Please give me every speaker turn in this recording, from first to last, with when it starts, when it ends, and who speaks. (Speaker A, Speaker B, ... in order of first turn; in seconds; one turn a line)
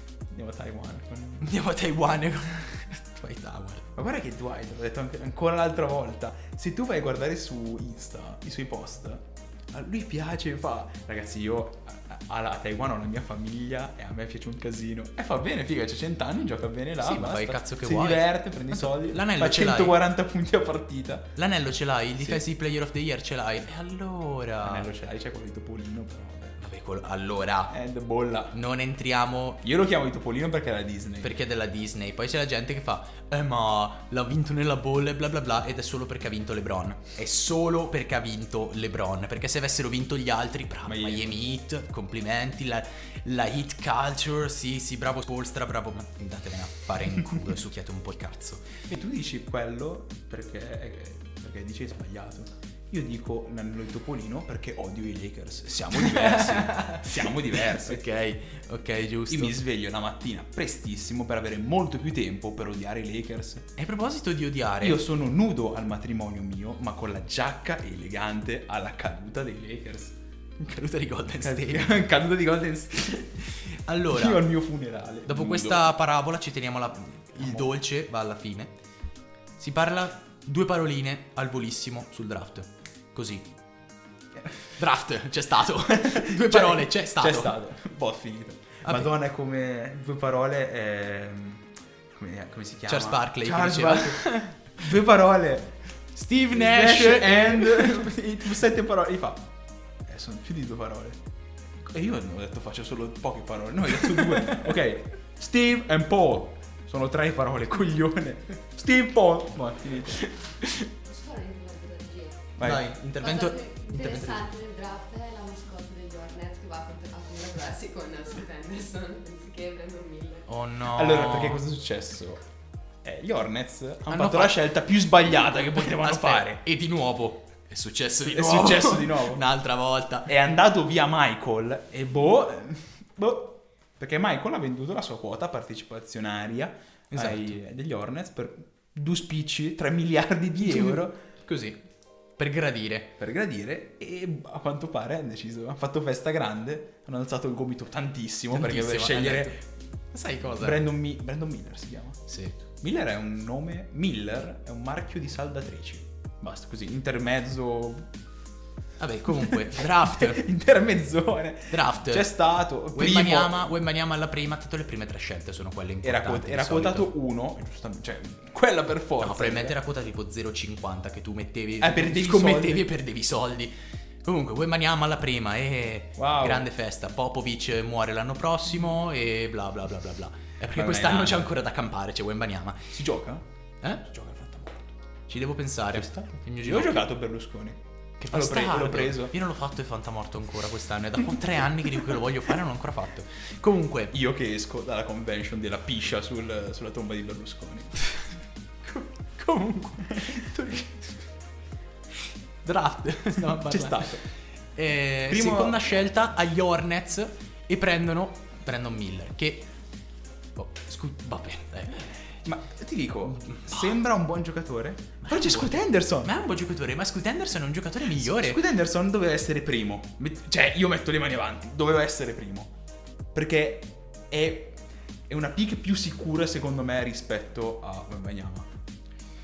Speaker A: 0.3-1.5
Speaker B: 1.4-3.9
Speaker A: 3.9-21.3
Speaker B: 17.0-20.0
Speaker B: 21.4-24.9
Speaker A: 24.6-26.6
Speaker B: 26.6-27.7
Speaker A: 27.7-28.6
Speaker B: 28.5-29.6
Speaker A: 29.6-31.4
Speaker B: 31.2-48.8
Speaker A: 40.9-41.4
Speaker A: 48.9-58.0
Speaker B: 55.9-59.6
Speaker A: 59.3-63.7
Speaker B: 63.8-65.0
Speaker A: 64.8-70.2
Speaker B: 70.6-72.1
Speaker A: 71.4-73.4
Speaker B: 73.4-74.5
Speaker A: 74.1-75.9
Speaker B: 75.2-78.7
Speaker A: 77.4-77.7
Speaker B: 79.6-83.5
Speaker B: 84.8-87.5
Speaker A: 85.9-95.7
Speaker B: 88.8-89.1
Speaker B: 92.9-94.7
Speaker B: 96.1-98.1
Speaker A: 96.5-99.5
Speaker A: 100.0-101.2
Speaker A: 101.8-110.2
Speaker B: 104.0-104.6
Speaker C: 111.0-112.5
Speaker A: 112.6-113.0
Speaker B: 112.6-114.5
Speaker C: 113.2-120.5
Speaker B: 120.5-121.6
Speaker A: 120.9-122.4
Speaker A: 123.0-126.6
Speaker B: 124.1-124.6
Speaker B: 125.7-130.3
Speaker A: 128.2-129.4
Speaker A: 130.3-141.2
Speaker B: 137.1-137.6
Speaker B: 140.6-141.8
Speaker B: 142.4-143.2
Speaker A: 143.2-149.6
Speaker B: 148.5-149.6
Speaker B: 150.1-150.9
Speaker A: 150.6-158.1
Speaker B: 152.3-152.6
Speaker B: 159.0-160.4
Speaker A: 159.4-163.7
Speaker B: 161.7-162.3
Speaker B: 162.9-167.1
Speaker A: 166.0-169.8
Speaker B: 169.2-173.7
Speaker A: 171.8-172.9
Speaker B: 174.2-182.9
Speaker A: 176.2-176.7
Speaker A: 180.6-181.5
Speaker A: 182.9-183.4
Speaker A: 184.0-184.9
Speaker B: 185.3-187.1
Speaker A: 185.9-189.3
Speaker B: 188.2-194.1
Speaker A: 194.1-198.1
Speaker B: 198.8-201.1
Speaker B: 202.6-204.2
Speaker A: 203.6-204.2
Speaker B: 204.7-209.7
Speaker A: 205.3-205.9
Speaker B: 210.6-212.2
Speaker A: 212.4-216.3
Speaker B: 213.3-214.0
Speaker B: 215.2-218.6
Speaker A: 218.1-222.7
Speaker A: 223.3-228.7